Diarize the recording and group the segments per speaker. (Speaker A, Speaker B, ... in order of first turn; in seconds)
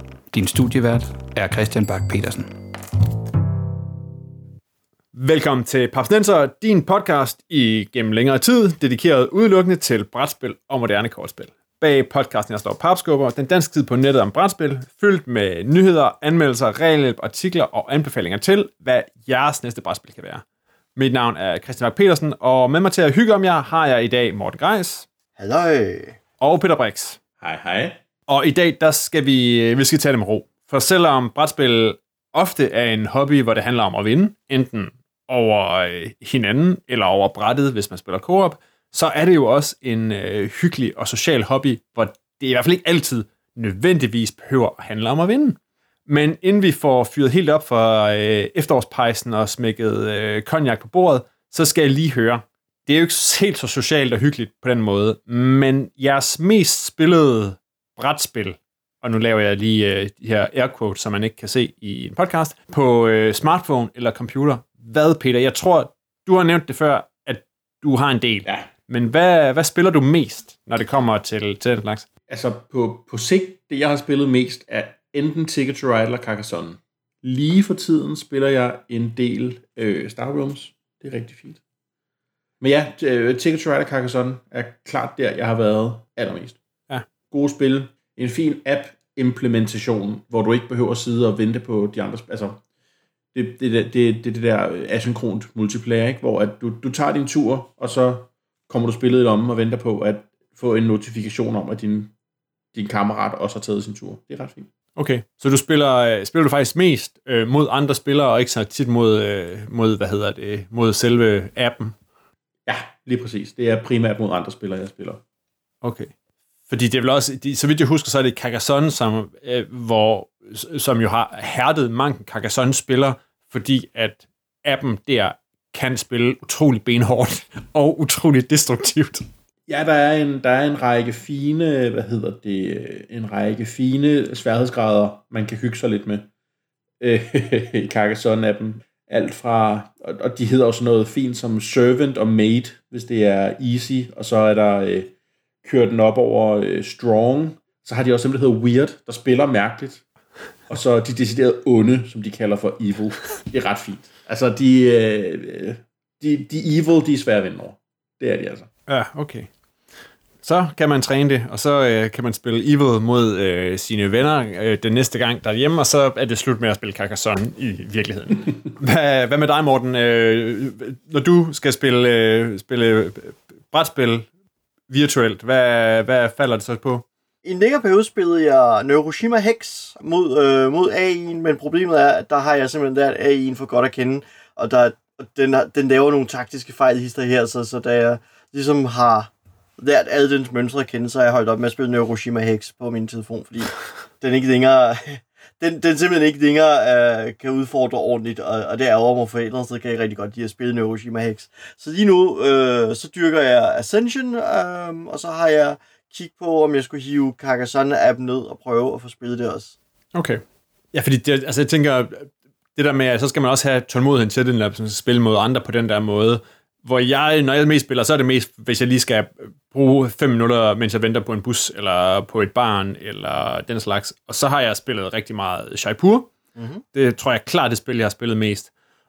Speaker A: 0.3-2.5
Speaker B: 5.2-20.4, 21.0-25.1, 26.4-27.2, 28.3-72.1, 105.0-111.9, 115.8-116.1, 116.7-129.3, 158.9-159.5, 160.4-174.3, 174.9-177.1, 210.1-210.4, 210.9-226.3, 226.9-228.7
Speaker C: 25.4-26.2, 177.4-209.8, 226.6-226.8
Speaker D: 27.4-28.0, 72.3-81.6, 82.6-86.6, 87.3-92.6, 93.3-102.1, 102.7-104.7, 112.7-115.2, 129.7-136.3, 137.0-145.1, 145.6-150.0, 150.7-158.7